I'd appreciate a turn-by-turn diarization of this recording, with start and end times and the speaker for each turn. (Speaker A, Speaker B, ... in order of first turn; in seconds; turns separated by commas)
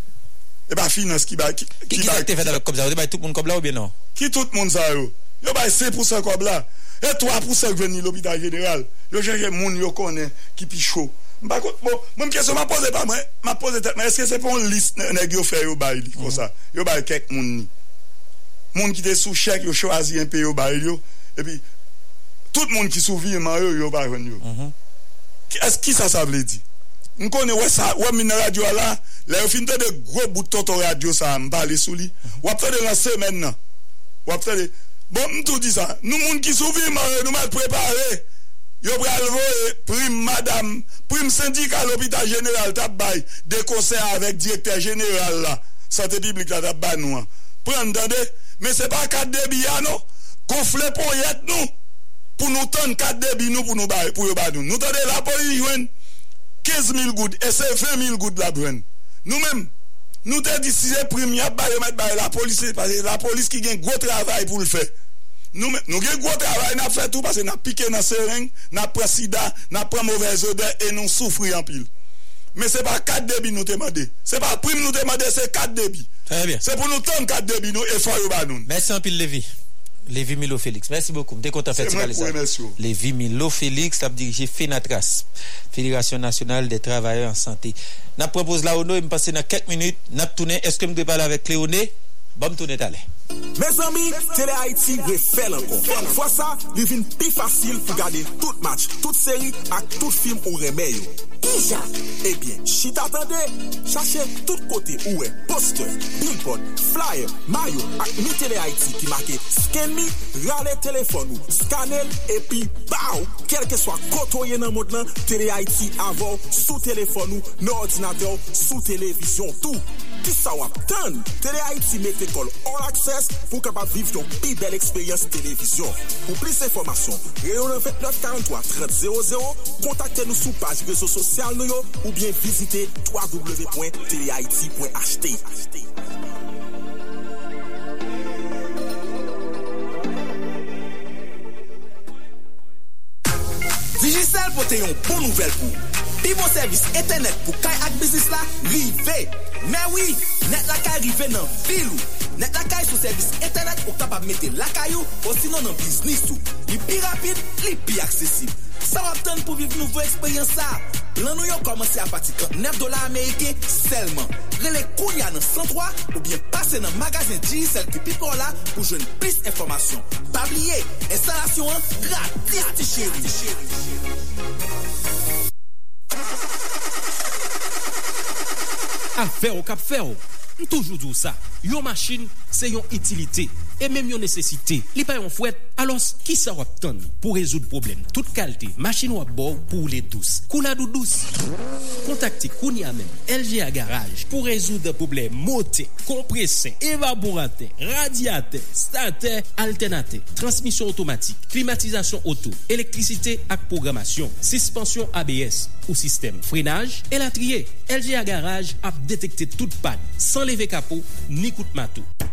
Speaker A: 0.7-2.5, Speaker B: 1.9-3.9, Speaker A: 4.2-17.7, Speaker B: 16.2-16.4, Speaker A: 18.7-21.6, Speaker A: 22.5-24.4, Speaker B: 24.4-24.7, Speaker A: 25.5-26.6, Speaker A: 27.2-33.5, Speaker A: 34.2-38.2, Speaker A: 38.8-51.7, Speaker A: 52.4-55.9, Speaker A: 56.6-59.7, Speaker A: 60.2-64.9, Speaker A: 65.5-71.9, Speaker A: 72.5-76.1, Speaker B: 76.3-76.6, Speaker A: 76.6-78.7, Speaker B: 78.7-79.5, Speaker B: 80.1-93.0, Speaker A: 81.7-82.8, Speaker C: 93.5-101.2, Speaker C: 102.2-135.9, Speaker C: 143.9-173.8, Speaker D: 179.2-191.4, Speaker D: 192.0-212.1